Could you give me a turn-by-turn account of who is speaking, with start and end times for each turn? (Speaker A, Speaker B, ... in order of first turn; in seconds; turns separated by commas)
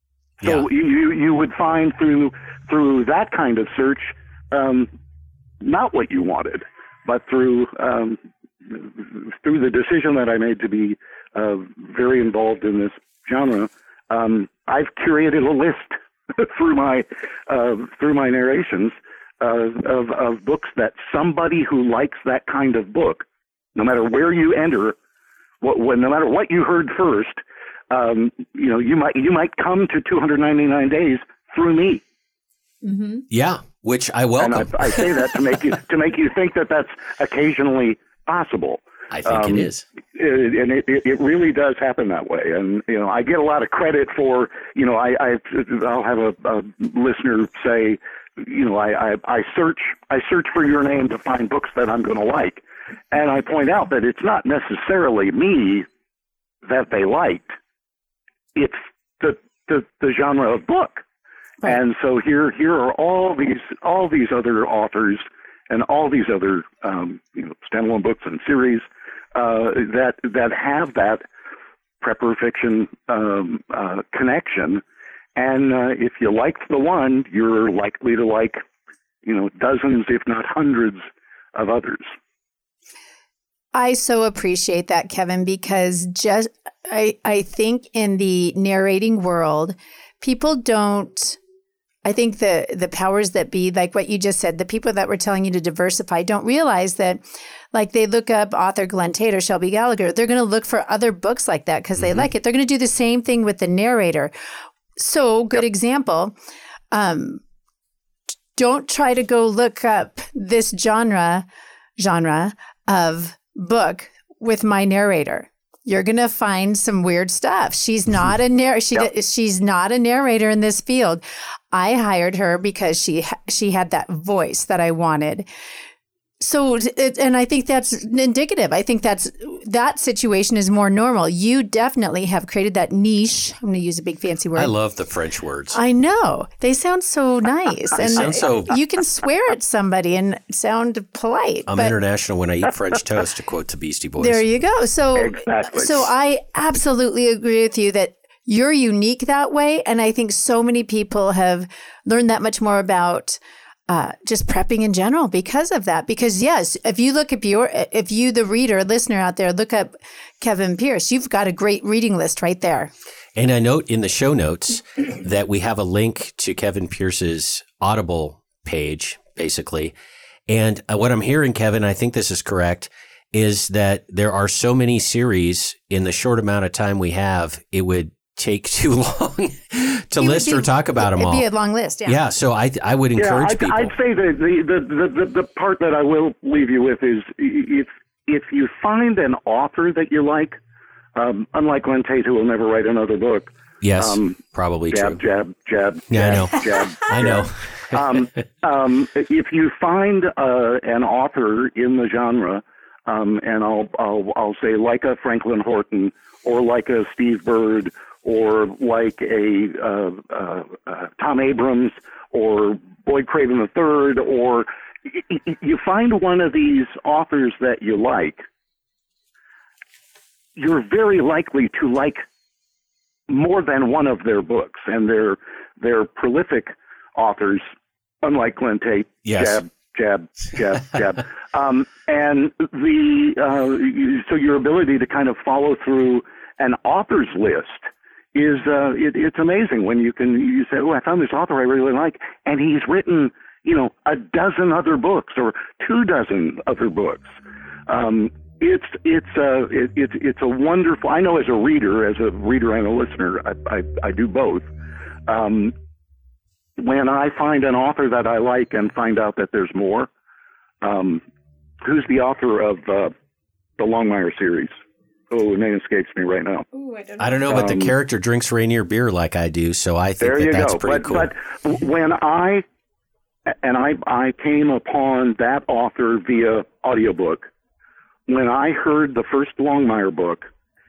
Speaker A: 0.4-4.9, Speaker A: 5.6-25.0, Speaker A: 25.6-32.0, Speaker B: 32.8-33.2, Speaker C: 33.3-35.3, Speaker A: 34.4-55.9, Speaker C: 39.1-39.8, Speaker A: 56.6-57.6, Speaker A: 58.5-61.0, Speaker A: 61.6-71.2, Speaker A: 72.0-74.8, Speaker A: 75.4-78.6, Speaker A: 79.2-81.0, Speaker A: 81.5-82.1, Speaker B: 83.7-91.4, Speaker B: 92.0-97.2, Speaker B: 97.7-104.3, Speaker B: 105.0-106.3, Speaker B: 106.9-107.4, Speaker B: 108.6-111.5, Speaker B: 112.0-125.5, Speaker B: 126.4-134.7, Speaker C: 134.6-135.8, Speaker B: 135.7-141.9, Speaker C: 138.0-138.8, Speaker C: 141.7-144.4, Speaker B: 144.2-162.9, Speaker A: 145.2-146.1, Speaker C: 163.4-169.9, Speaker C: 170.5-181.4, Speaker B: 180.2-182.2, Speaker C: 182.1-183.9, Speaker A: 183.2-190.6, Speaker A: 191.2-194.4, Speaker C: 193.8-195.2, Speaker A: 194.9-218.4, Speaker C: 196.1-198.0, Speaker A: 220.6-222.2, Speaker A: 223.3-227.7, Speaker A: 228.2-247.4, Speaker C: 229.2-229.6, Speaker A: 247.9-254.7, Speaker A: 255.3-255.7, Speaker A: 256.8-260.1, Speaker A: 260.8-261.2, Speaker A: 261.8-263.1, Speaker A: 263.8-264.8, Speaker A: 265.3-266.7, Speaker B: 266.9-267.1, Speaker C: 267.2-271.3, Speaker A: 267.5-267.9, Speaker A: 270.2-272.6, Speaker A: 273.6-277.5, Speaker A: 278.3-280.5